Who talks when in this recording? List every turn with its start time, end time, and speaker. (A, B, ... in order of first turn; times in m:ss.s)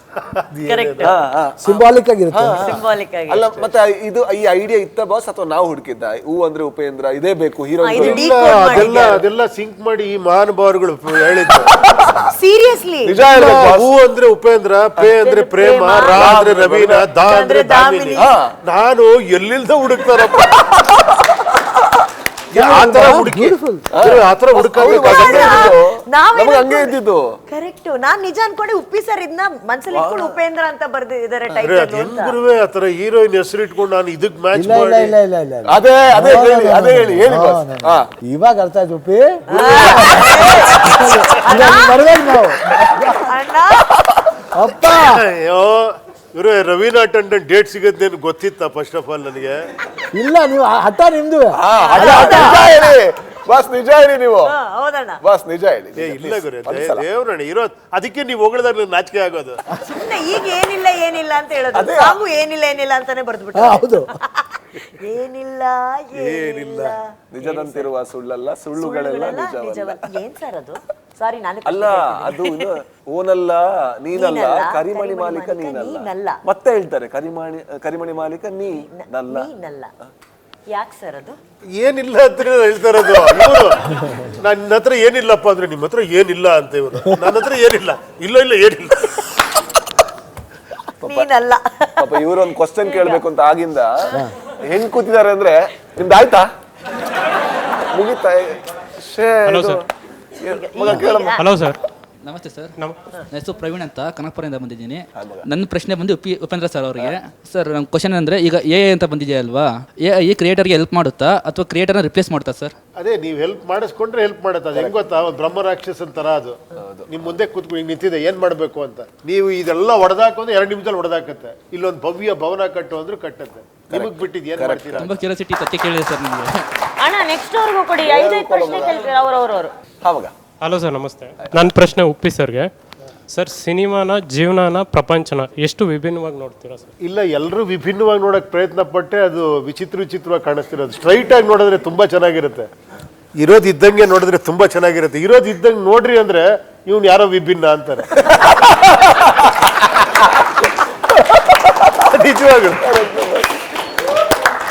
0:00.2-0:01.2 A
0:00.6-0:01.1 B
0:01.0-0:09.1 C
0:01.6-0:02.8 D
0:02.6-0:03.4 B
0:03.4-0:03.7 A
0:07.8-0:09.2 B
0:08.0-0:11.7 A
0:11.8-0:12.2 C
0:12.3-0:13.2 B
0:13.0-0:13.9 C
0:13.3-0:20.6 A
0:15.2-0:16.2 B
0:16.1-0:17.1 C
0:17.2-0:18.2 B
0:18.1-0:18.5 C
0:21.0-0:21.3 C
0:22.5-0:25.8 A
0:22.5-0:23.9 D
0:23.9-0:27.3 C
0:24.9-0:27.0 B
0:27.5-0:32.4 B
0:29.9-0:30.4 C
0:31.6-0:35.1 A
0:34.5-0:43.4 D
0:35.7-0:38.1 C
0:39.5-0:40.9 B
0:41.4-0:42.0 B
0:43.2-0:43.8 B
0:44.0-0:44.3 C
0:44.5-0:45.2 D
0:45.1-0:49.6 A
0:50.1-0:52.6 D
0:51.5-0:54.5 C
0:51.7-0:53.0 B
0:54.4-0:55.2 B
0:55.2-0:57.0 C
0:55.9-0:59.6 A
0:59.9-1:07.9 B
1:01.7-1:02.2 C
1:03.5-1:04.1 D
1:06.1-1:07.0 A
1:07.3-1:10.2 C
1:08.8-1:12.7 B
1:11.6-1:19.5 C
1:14.1-1:16.4 B
1:18.8-1:19.9 B
1:20.7-1:21.4 B
1:21.8-1:29.2 A
1:31.0-1:31.3 C
1:31.0-1:33.2 B
1:32.0-1:36.5 C
1:37.9-1:39.8 C
1:39.4-1:39.8 E
1:40.4-1:41.4 C
1:40.5-1:41.5 B
1:41.4-1:41.8 E
1:42.2-1:42.7 F
1:43.3-1:52.7 F
1:45.1-1:45.5 C
1:53.0-1:56.6 A
1:56.8-1:57.4 C
1:57.1-2:05.3 A
2:03.9-2:05.0 C
2:05.0-2:06.5 F
2:07.0-2:09.7 B
2:08.0-2:09.0 C
2:10.0-2:10.3 C
2:10.6-2:12.7 E
2:11.4-2:11.7 C
2:13.3-2:16.9 E
2:17.0-2:22.7 A
2:23.4-2:28.1 A
2:28.2-2:29.7 C
2:32.1-2:32.9 A
2:32.8-2:33.5 C